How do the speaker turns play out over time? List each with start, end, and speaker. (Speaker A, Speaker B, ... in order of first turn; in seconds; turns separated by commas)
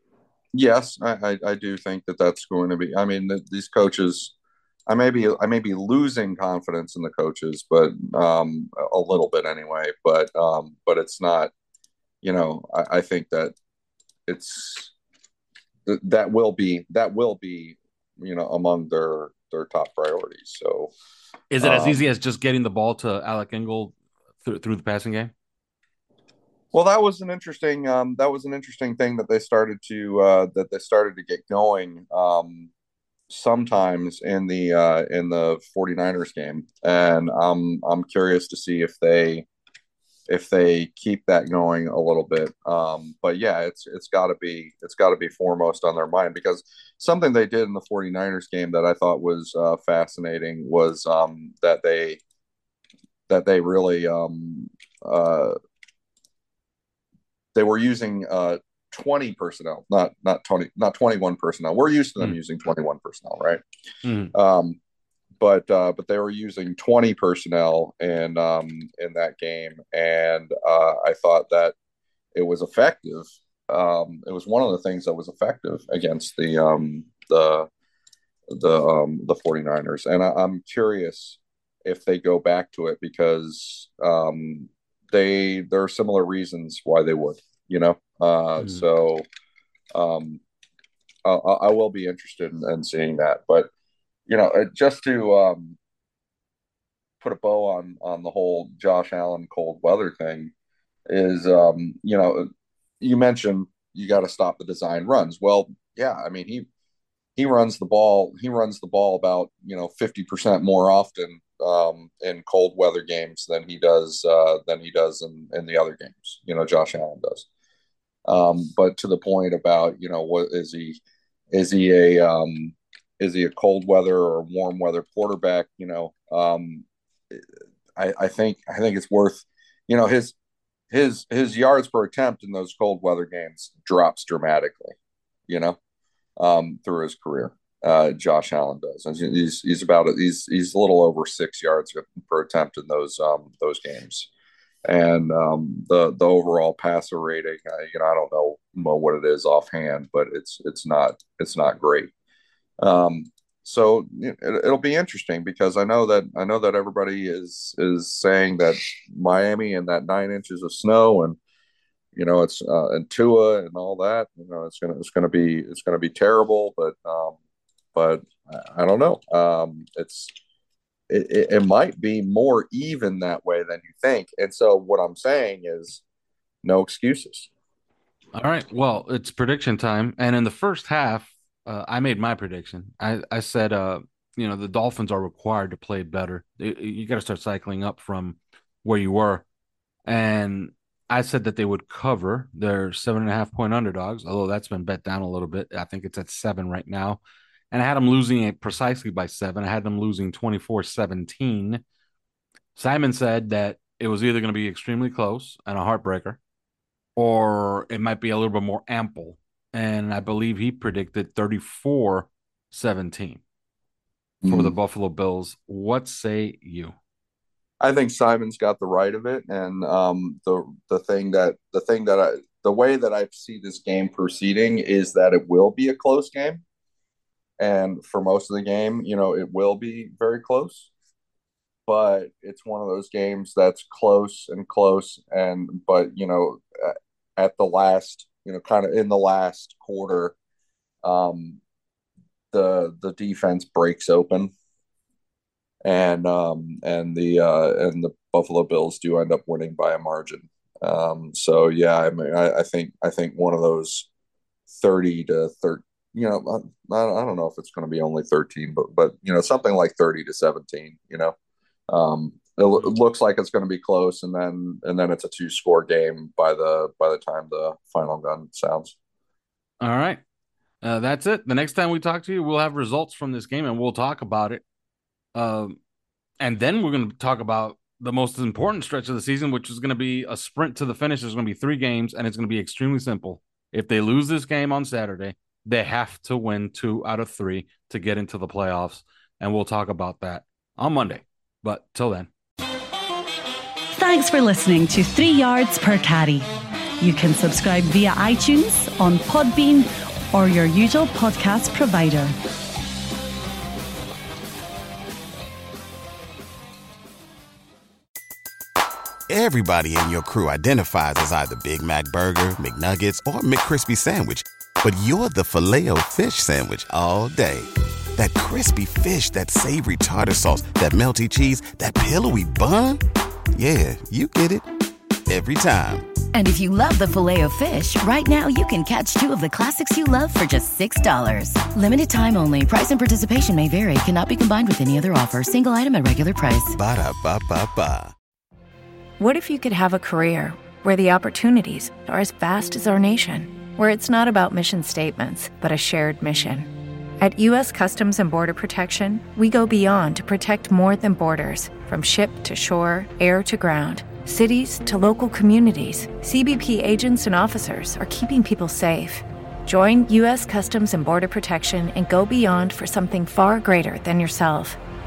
Speaker A: 0.5-4.3, Speaker A: 4.9-11.5, Speaker A: 12.2-13.5, Speaker A: 14.3-14.9, Speaker A: 15.9-20.9, Speaker B: 21.5-25.3, Speaker A: 21.6-22.0, Speaker A: 26.7-32.7, Speaker A: 33.3-39.5, Speaker A: 40.3-52.2, Speaker A: 53.3-55.5, Speaker A: 57.5-63.6, Speaker B: 64.0-64.3, Speaker A: 64.3-64.8, Speaker A: 65.4-71.7, Speaker A: 72.3-77.7, Speaker A: 78.5-89.2, Speaker B: 88.6-88.9, Speaker A: 89.9-90.4, Speaker A: 91.2-93.7, Speaker A: 94.3-95.8, Speaker A: 97.2-100.5, Speaker A: 101.1-102.5, Speaker A: 103.0-106.7, Speaker A: 107.4-117.5, Speaker A: 118.2-121.0, Speaker A: 121.5-127.4, Speaker A: 128.0-130.3, Speaker A: 130.9-134.9, Speaker A: 135.5-135.8, Speaker A: 136.4-144.3, Speaker A: 144.8-152.1, Speaker A: 152.8-161.4, Speaker A: 162.1-167.3, Speaker A: 167.9-170.3, Speaker A: 171.1-176.0, Speaker A: 176.6-177.5, Speaker B: 178.3-189.4, Speaker B: 190.1-197.2, Speaker B: 197.7-201.8, Speaker B: 202.8-206.4, Speaker B: 207.2-213.4, Speaker A: 214.4-214.7, Speaker B: 214.4-216.9, Speaker A: 217.8-226.6, Speaker A: 227.6-230.9, Speaker A: 231.9-240.3, Speaker A: 241.0-241.6, Speaker A: 242.5-244.5, Speaker A: 245.8-254.1, Speaker A: 254.7-261.3, Speaker A: 261.9-268.9, Speaker B: 269.8-270.2, Speaker B: 270.8-274.6, Speaker B: 275.3-275.8, Speaker B: 276.4-292.3, Speaker C: 293.9-296.5, Speaker C: 297.0-302.3, Speaker D: 309.3-323.0, Speaker D: 323.5-324.6, Speaker D: 325.3-326.1, Speaker E: 326.3-336.8, Speaker D: 336.8-338.1, Speaker F: 339.2-364.8